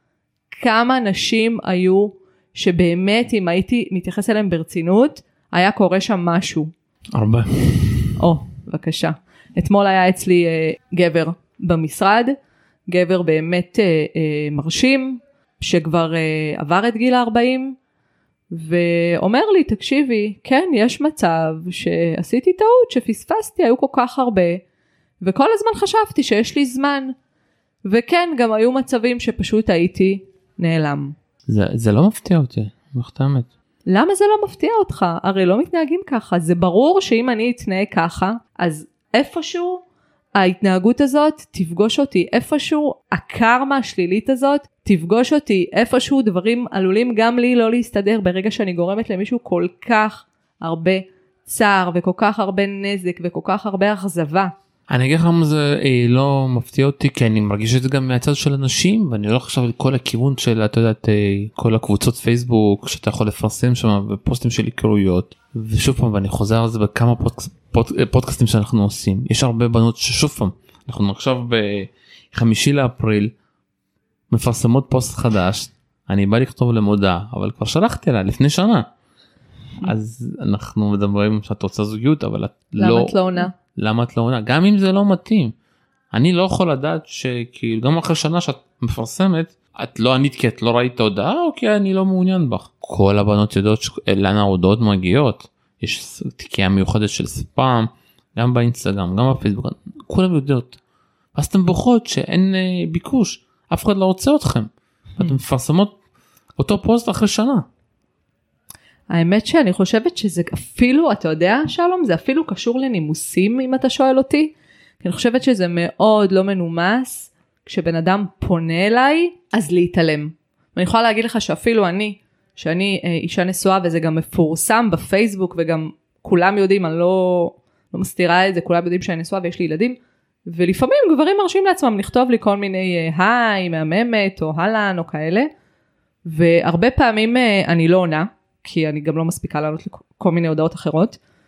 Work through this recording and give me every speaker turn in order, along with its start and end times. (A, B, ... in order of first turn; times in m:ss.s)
0:00.5-0:06.7 A
0:07.1-0:08.2 B
0:08.2-0:12.3 A
0:12.9-0:17.8 A
0:18.5-0:24.6 A
0:25.2-0:27.1 A
0:27.8-0:31.1 A
0:31.5-0:33.5 B
0:33.9-0:39.8 A
0:40.3-0:54.5 A
0:54.9-1:13.3 B
1:14.3-1:18.9 B
1:19.8-1:25.5 B
1:22.8-1:23.5 A
1:26.1-1:40.8 B
1:41.3-1:46.0 B
1:46.6-1:47.6 B
1:49.1-2:10.0 A
2:10.5-2:15.5 A
2:16.2-2:21.2 A